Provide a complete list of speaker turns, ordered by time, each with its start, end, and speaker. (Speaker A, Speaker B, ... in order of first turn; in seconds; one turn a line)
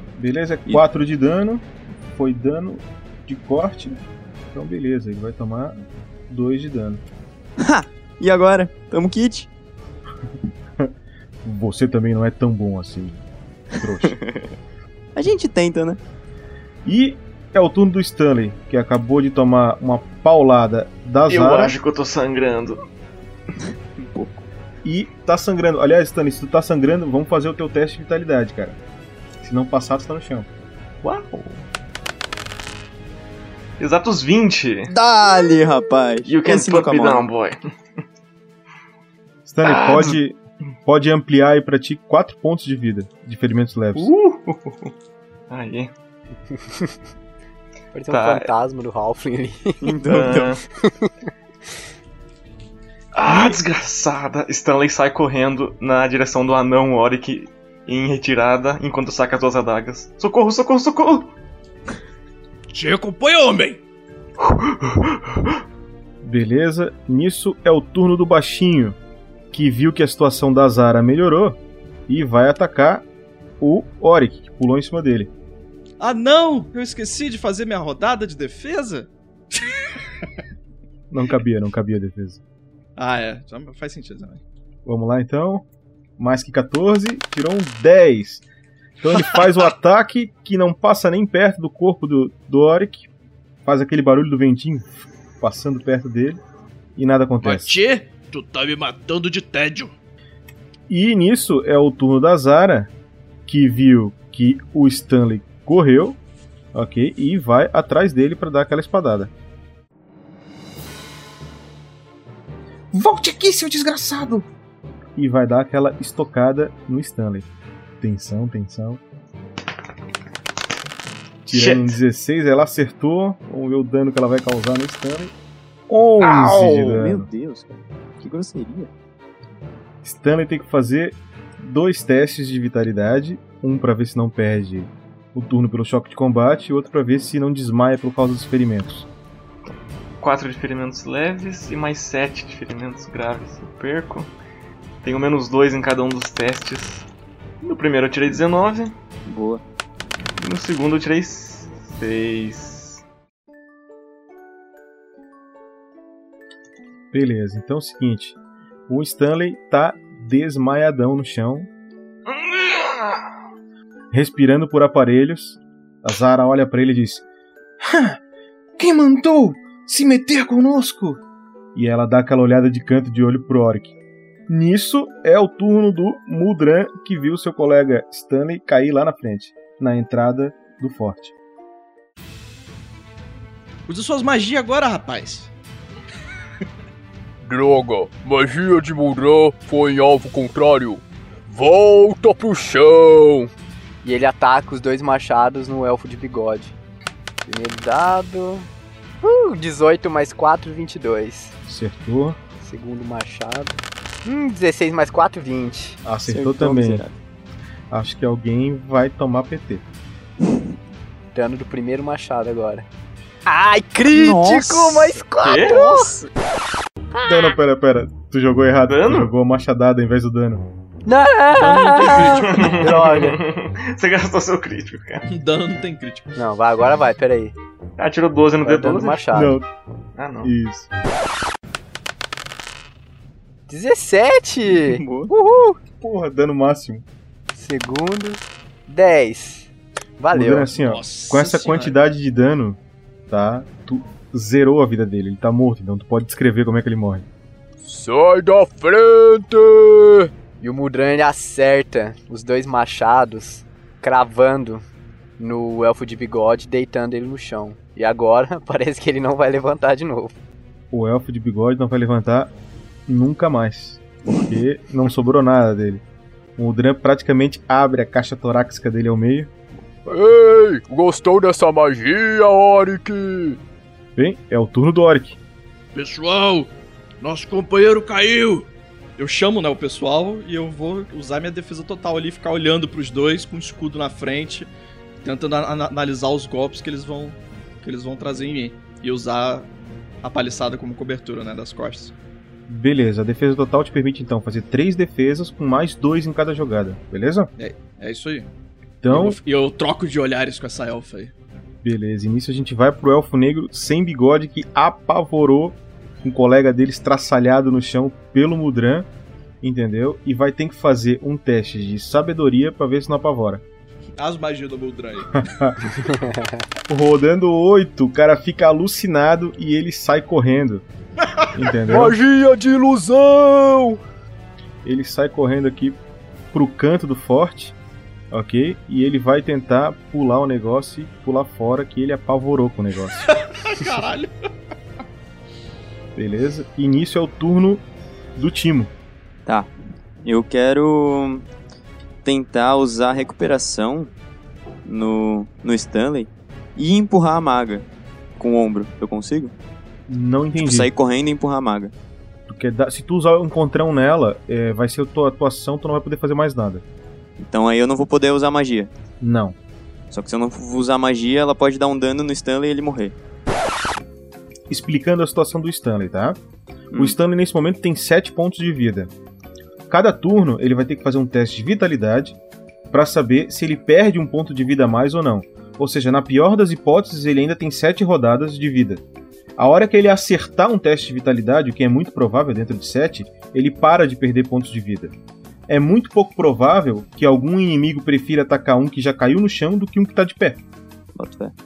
Speaker A: 0.2-7.0
Speaker B: 7.6-9.5
Speaker A: 11.4-13.2
Speaker A: 13.7-14.2
Speaker B: 14.1-14.5
Speaker B: 15.2-16.0
Speaker A: 16.9-21.8
Speaker C: 21.3-22.8
Speaker B: 24.0-24.4
Speaker A: 24.8-28.8
Speaker A: 29.4-30.5
Speaker C: 31.0-31.6
Speaker C: 33.8-34.9
Speaker B: 34.9-37.2
Speaker C: 36.3-37.6
Speaker A: 39.5-44.1
Speaker C: 39.6-40.1
Speaker C: 44.0-44.9
Speaker C: 45.5-45.9
Speaker D: 46.7-46.9
Speaker D: 47.9-49.9
Speaker C: 48.1-48.5
Speaker B: 49.8-50.6
Speaker C: 50.1-50.6
Speaker C: 53.1-61.3
Speaker E: 62.7-63.8
Speaker C: 64.4-65.4
Speaker A: 66.2-69.0
Speaker A: 69.5-73.0
Speaker A: 73.6-75.3
Speaker F: 76.0-79.1
Speaker A: 81.1-82.4
Speaker F: 83.0-84.4
Speaker A: 84.9-85.7
Speaker A: 86.2-88.4
Speaker A: 89.0-93.1
Speaker A: 93.7-96.4
Speaker A: 97.0-97.8
Speaker E: 97.4-99.9
Speaker A: 100.9-102.9
Speaker A: 103.5-106.2
Speaker A: 106.7-109.3
Speaker A: 112.9-114.5
Speaker A: 115.2-117.5
Speaker A: 118.0-119.0
Speaker C: 121.5-122.0
Speaker A: 121.5-125.3
Speaker A: 125.9-127.3
Speaker C: 126.2-126.8
Speaker B: 126.7-128.9
Speaker A: 130.0-139.1
Speaker C: 140.2-144.3
Speaker C: 145.0-147.1
Speaker C: 147.6-148.9
Speaker B: 149.3-149.6
Speaker C: 150.4-153.0
Speaker A: 157.1-158.4
Speaker A: 158.9-161.7
Speaker C: 162.3-163.2
Speaker A: 164.1-167.2
Speaker A: 167.8-168.2
Speaker A: 168.8-171.2
Speaker A: 171.8-174.0
Speaker A: 174.5-181.3
Speaker F: 183.9-185.5
Speaker G: 187.4-193.5
Speaker D: 194.0-196.8
Speaker D: 197.5-198.7
Speaker D: 199.2-201.5
Speaker A: 201.7-202.4
Speaker D: 202.6-206.0
Speaker A: 206.1-207.0
Speaker B: 206.3-207.1
Speaker A: 207.9-209.8
Speaker D: 211.3-212.9
Speaker D: 213.5-216.2
Speaker B: 214.1-216.3
Speaker C: 215.4-215.8
Speaker A: 217.2-220.7
Speaker C: 218.9-219.3
Speaker D: 221.1-223.4
Speaker F: 221.5-222.6
Speaker C: 222.2-225.3
Speaker F: 225.3-226.4
Speaker D: 226.4-227.6
Speaker C: 228.0-229.3
Speaker D: 228.6-229.6
Speaker A: 229.3-229.7
Speaker C: 230.2-230.5
Speaker A: 230.4-230.9
Speaker D: 233.7-235.8
Speaker B: 234.7-235.3
Speaker A: 236.0-237.0
Speaker D: 237.5-240.7
Speaker A: 240.3-242.8
Speaker F: 241.2-241.9
Speaker A: 243.3-247.3
Speaker G: 247.8-250.3
Speaker D: 250.6-254.8
Speaker D: 255.4-260.4
Speaker A: 260.9-262.5
Speaker A: 263.1-266.0
Speaker A: 266.6-269.5
Speaker G: 270.1-273.6
Speaker A: 274.2-275.4
Speaker E: 275.9-278.7
Speaker F: 279.2-289.7
Speaker F: 290.2-292.1
Speaker A: 292.7-297.5
Speaker F: 297.6-298.5
Speaker A: 299.0-299.4
Speaker F: 299.1-301.3
Speaker A: 301.8-309.1
Speaker A: 309.6-313.6
Speaker F: 314.2-315.4
Speaker A: 315.4-315.8
Speaker D: 316.2-316.6
Speaker A: 316.9-320.8
Speaker A: 321.5-322.2
Speaker G: 321.8-324.0
Speaker A: 324.9-326.0
Speaker A: 326.5-327.8
Speaker A: 328.3-333.3
Speaker F: 333.3-334.3
Speaker A: 336.2-337.9
Speaker A: 338.4-338.9
Speaker B: 340.2-341.5
Speaker B: 342.2-344.1
Speaker B: 344.9-347.9
Speaker B: 348.4-349.5
Speaker A: 350.1-350.9
Speaker B: 350.6-351.9
Speaker A: 352.5-356.8
Speaker B: 357.4-358.9
Speaker A: 359.2-359.6
Speaker B: 360.1-363.1
Speaker A: 364.7-366.4
Speaker A: 367.0-369.1
Speaker A: 369.9-372.4
Speaker A: 372.9-379.0
Speaker A: 379.6-385.1
Speaker A: 385.7-390.6
Speaker B: 391.1-391.6